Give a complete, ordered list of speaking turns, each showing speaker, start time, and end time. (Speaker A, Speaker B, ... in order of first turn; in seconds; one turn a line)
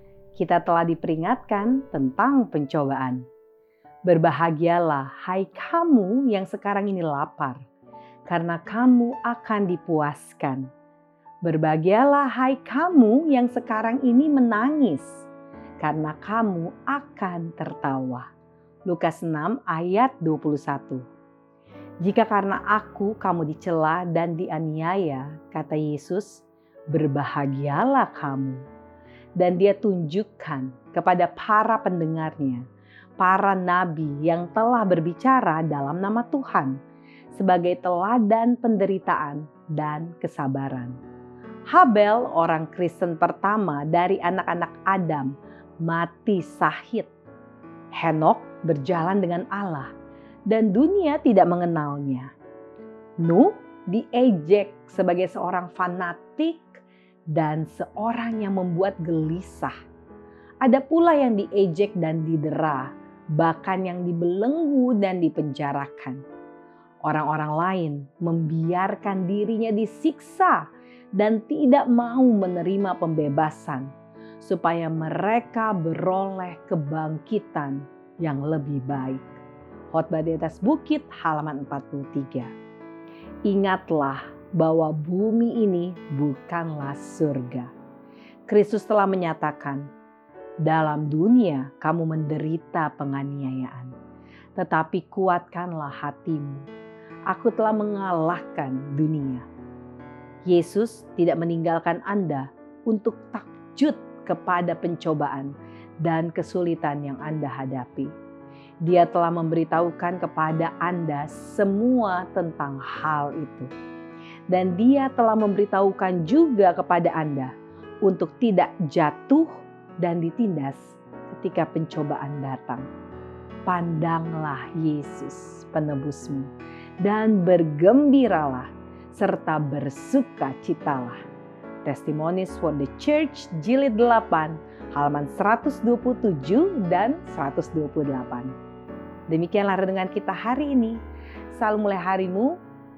Speaker A: 0.3-3.2
Speaker A: 4.0-7.6
Speaker A: 8.3-10.7
Speaker A: 11.4-15.3
Speaker A: 15.8-18.3
Speaker A: 18.9-21.0
Speaker A: 22.0-28.6
Speaker A: 29.4-32.6
Speaker A: 33.2-36.8
Speaker A: 37.3-41.0
Speaker A: 41.7-47.1
Speaker A: 47.9-49.9
Speaker A: 50.5-52.3
Speaker A: 53.2-59.8
Speaker A: 60.6-66.2
Speaker A: 67.0-79.4
Speaker A: 79.9-82.5
Speaker A: 83.5-87.7
Speaker A: 88.5-89.9
Speaker A: 90.6-93.9
Speaker A: 94.5-96.7
Speaker A: 97.3-99.4
Speaker A: 100.5-108.1
Speaker A: 108.8-113.7
Speaker A: 114.5-122.9
Speaker A: 123.7-126.5
Speaker A: 127.0-131.2
Speaker A: 131.8-138.5
Speaker A: 139.3-141.0
Speaker A: 141.5-142.6